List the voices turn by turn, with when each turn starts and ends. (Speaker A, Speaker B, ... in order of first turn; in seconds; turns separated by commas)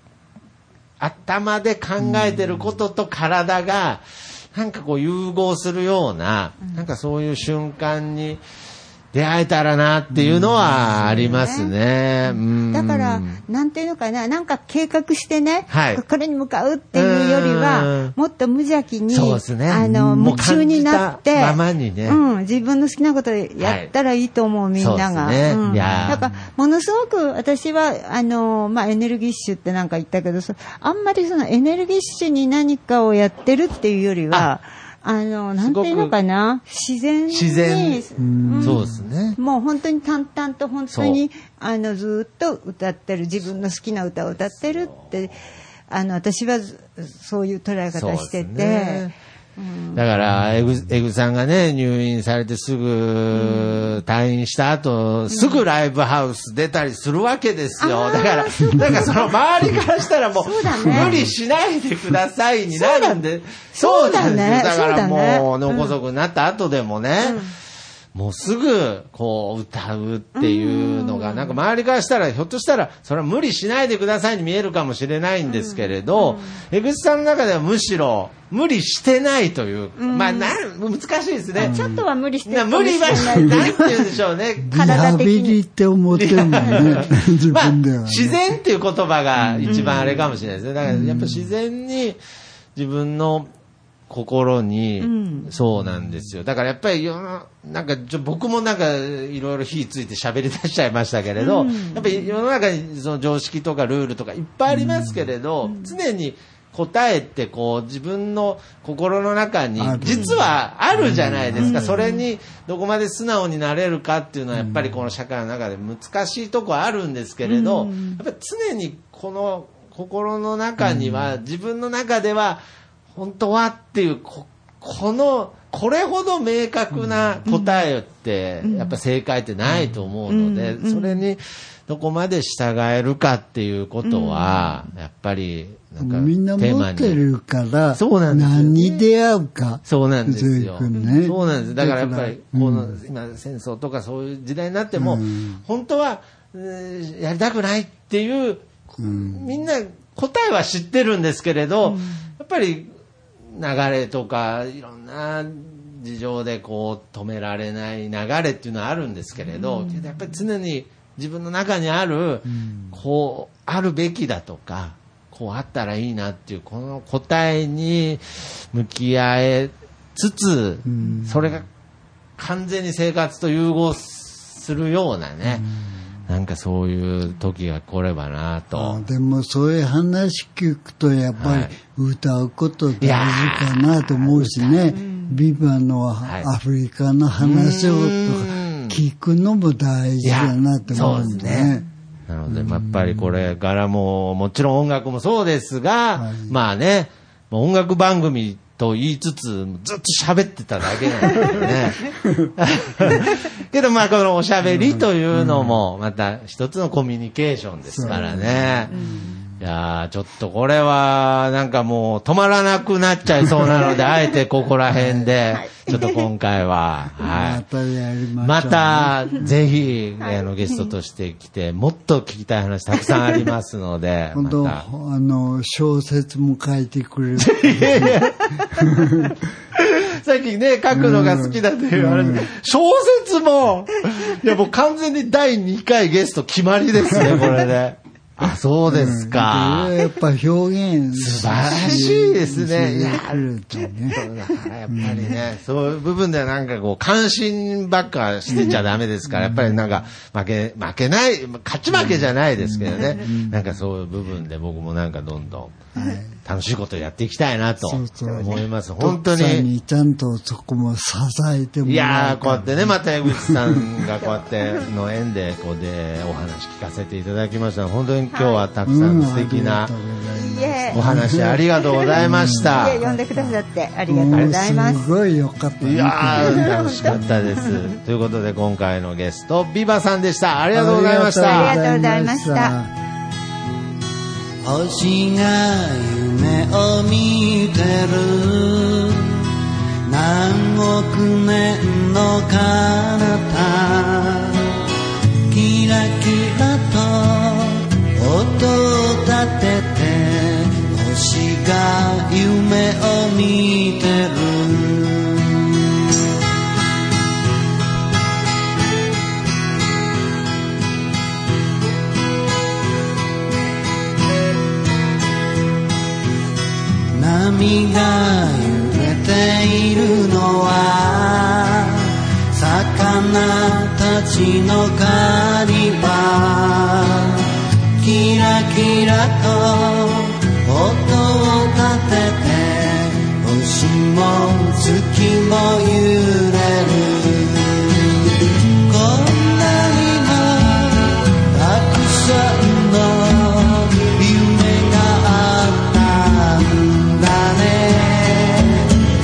Speaker A: 1.0-4.0, Speaker A: 4.5-8.4, Speaker A: 9.1-13.4, Speaker B: 10.1-11.1, Speaker C: 11.1-11.7, Speaker C: 12.7-38.8, Speaker A: 15.7-16.0, Speaker A: 16.9-18.1, Speaker A: 19.1-22.2, Speaker B: 19.8-20.4, Speaker A: 23.6-23.9, Speaker A: 24.8-26.2, Speaker B: 25.6-26.2, Speaker A: 35.6-36.1, Speaker A: 37.3-38.0, Speaker B: 38.2-38.9, Speaker A: 38.6-39.4, Speaker C: 39.4-45.4, Speaker A: 40.9-41.2, Speaker C: 45.9-50.0, Speaker A: 47.9-49.1, Speaker A: 49.9-67.4, Speaker C: 53.4-54.0, Speaker C: 55.3-55.6, Speaker C: 57.8-59.3, Speaker C: 60.4-61.3, Speaker C: 62.7-63.2, Speaker C: 63.7-65.9, Speaker C: 67.2-67.5, Speaker A: 68.1-81.8, Speaker C: 70.3-71.6, Speaker C: 75.5-76.6, Speaker C: 80.0-80.5, Speaker C: 81.5-84.1, Speaker B: 81.6-82.0, Speaker A: 82.5-85.2, Speaker B: 84.6-88.4, Speaker C: 84.7-85.6, Speaker A: 86.1-92.2, Speaker B: 89.4-89.8, Speaker C: 89.6-90.2, Speaker B: 90.8-91.5, Speaker A: 92.8-93.5, Speaker A: 94.1-122.6, Speaker C: 95.0-95.5, Speaker C: 101.4-102.3, Speaker B: 104.7-105.3, Speaker B: 109.8-112.0, Speaker C: 110.1-110.4, Speaker C: 111.6-112.2, Speaker B: 114.5-115.0, Speaker C: 117.4-118.2, Speaker B: 120.8-121.3, Speaker A: 123.1-137.2, Speaker C: 127.5-127.8, Speaker C: 128.6-129.0, Speaker C: 130.3-131.2, Speaker C: 134.0-134.8, Speaker B: 136.0-143.0, Speaker A: 137.9-139.0, Speaker A: 139.8-152.9, Speaker C: 140.9-141.6, Speaker B: 144.9-145.6, Speaker B: 149.0-149.5, Speaker C: 151.8-152.2, Speaker A: 153.5-171.7, Speaker C: 159.5-160.2, Speaker B: 162.4-163.0, Speaker B: 170.8-171.6, Speaker A: 172.4-175.6, Speaker B: 175.4-175.9, Speaker A: 176.3-179.0, Speaker B: 178.7-191.8, Speaker A: 181.4-181.7, Speaker A: 183.0-185.0, Speaker A: 187.4-189.0, Speaker A: 190.2-191.8, Speaker A: 192.3-208.9, Speaker B: 192.5-193.4, Speaker B: 196.2-196.6, Speaker B: 204.7-205.8, Speaker B: 207.9-209.4, Speaker C: 208.9-209.3, Speaker A: 209.6-217.6, Speaker B: 214.9-215.3, Speaker C: 215.5-216.2, Speaker B: 217.2-219.5, Speaker A: 218.4-224.8, Speaker C: 220.2-220.8, Speaker B: 224.3-229.3, Speaker A: 227.4-229.0, Speaker A: 229.7-239.9, Speaker B: 230.9-232.5, Speaker B: 237.1-237.5, Speaker B: 238.9-244.3, Speaker A: 241.1-255.8, Speaker B: 244.9-245.4, Speaker B: 249.3-250.0, Speaker B: 251.9-253.8, Speaker B: 255.9-256.4, Speaker A: 256.4-259.7, Speaker B: 257.8-263.9, Speaker A: 261.8-269.9, Speaker C: 264.2-264.9, Speaker C: 268.3-268.6, Speaker B: 268.8-271.6, Speaker C: 270.3-271.0, Speaker A: 270.9-273.0, Speaker C: 271.9-275.0, Speaker B: 272.1-277.4, Speaker A: 275.8-281.8, Speaker C: 276.4-277.8, Speaker B: 280.7-282.9, Speaker C: 281.4-282.7, Speaker D: 284.6-289.4, Speaker D: 290.1-294.6, Speaker D: 295.5-305.8, Speaker D: 317.1-327.4, Speaker D: 328.0-338.1, Speaker D: 338.9-348.9